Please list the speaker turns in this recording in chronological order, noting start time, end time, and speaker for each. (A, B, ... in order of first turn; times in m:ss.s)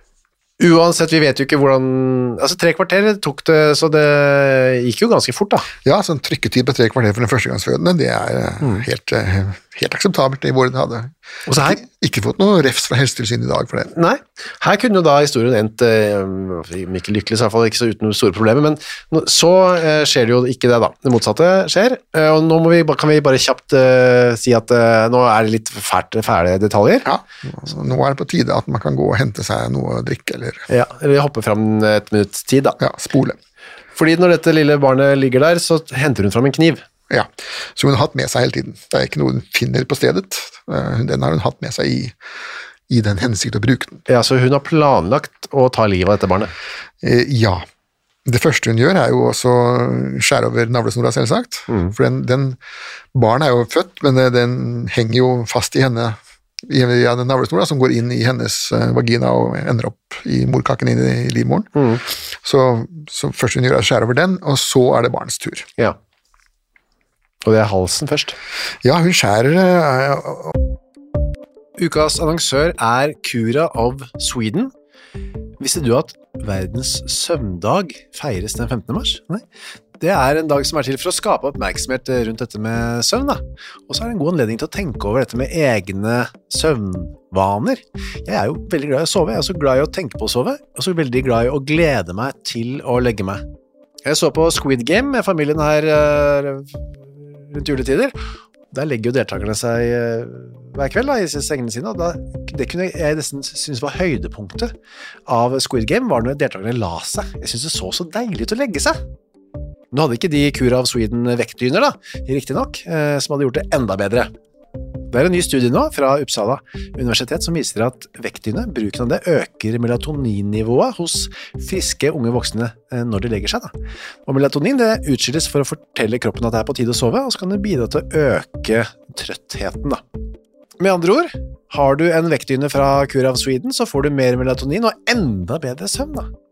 0:00.6-0:05.7 A
0:05.8-0:13.9 B
0:11.5-0:11.8 A
0:13.9-0:27.1 A
0:27.0-0:30.6 B
0:30.7-0:32.8 A
0:32.8-0:33.4 B
0:34.0-0:36.8 A
0:37.1-0:42.1 B
0:42.9-0:44.0 B
0:44.1-0:46.5 A
0:47.0-0:47.6 B
0:48.2-0:52.6 B
0:51.7-0:51.9 A
0:53.1-1:01.7 B
1:01.7-1:02.0 A
1:02.3-1:05.7 B
1:07.4-1:08.4 A
1:08.8-1:10.6 B
1:11.8-1:14.7 A
1:15.6-1:19.4 A
1:20.0-1:33.4 A
1:34.0-1:38.1 A
1:38.7-1:44.7 A
1:45.3-1:49.0 A
1:49.9-1:54.3 A
1:55.1-2:03.7 A
2:04.2-2:10.0 A
2:10.8-2:16.3 A